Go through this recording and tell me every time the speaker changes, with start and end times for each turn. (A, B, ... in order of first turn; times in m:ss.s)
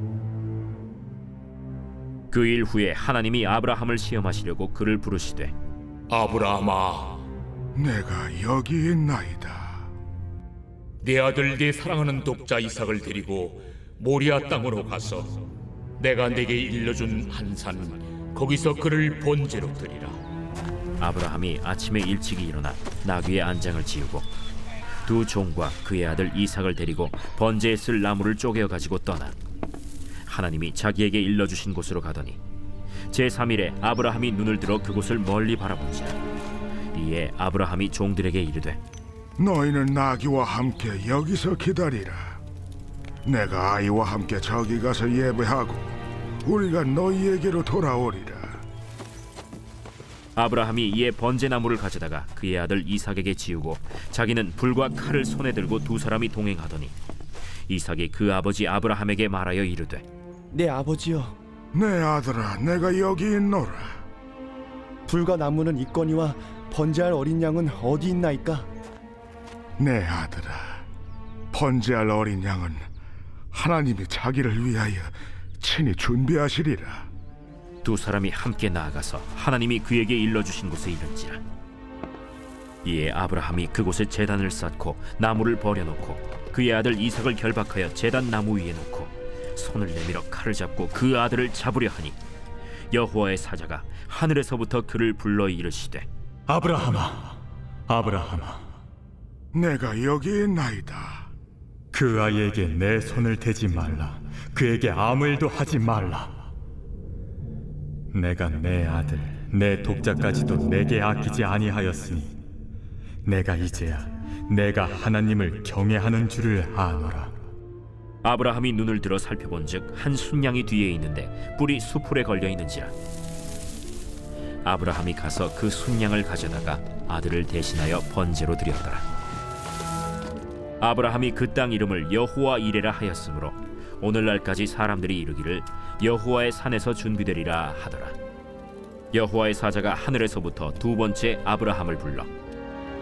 0:02.3-0:05.5 A
0:06.1-0:07.2 B
0:07.8-0:09.8 C
0:11.0-0:15.3 B
0:16.0-0:20.2 B
0:21.0-0:24.3 A
0:25.1-0:29.4 A
0:30.3-0:32.4 A
0:33.1-0:36.2 A
0:36.9-0:38.8 A
0:39.4-0:42.4 C
0:43.2-0:45.9 C
0:46.4-0:48.6 C
0:50.4-0:57.0 A
0:57.7-1:00.0 A
1:00.5-1:01.4 D
1:01.7-1:04.0 C
1:05.1-1:08.7 D
1:09.8-1:10.8 C
1:11.5-1:12.9 C
1:13.5-1:17.1 C
1:17.8-1:21.4 A
1:22.8-1:32.2 A
1:32.9-1:36.1 A
1:36.5-1:38.6 E
1:39.5-1:41.3 C
1:41.9-1:46.3 E
1:48.1-1:52.4 E
1:53.2-1:57.3 E
1:58.2-2:02.9 A
2:04.6-2:09.0 A
2:10.8-2:18.2 A
2:19.1-2:22.3 A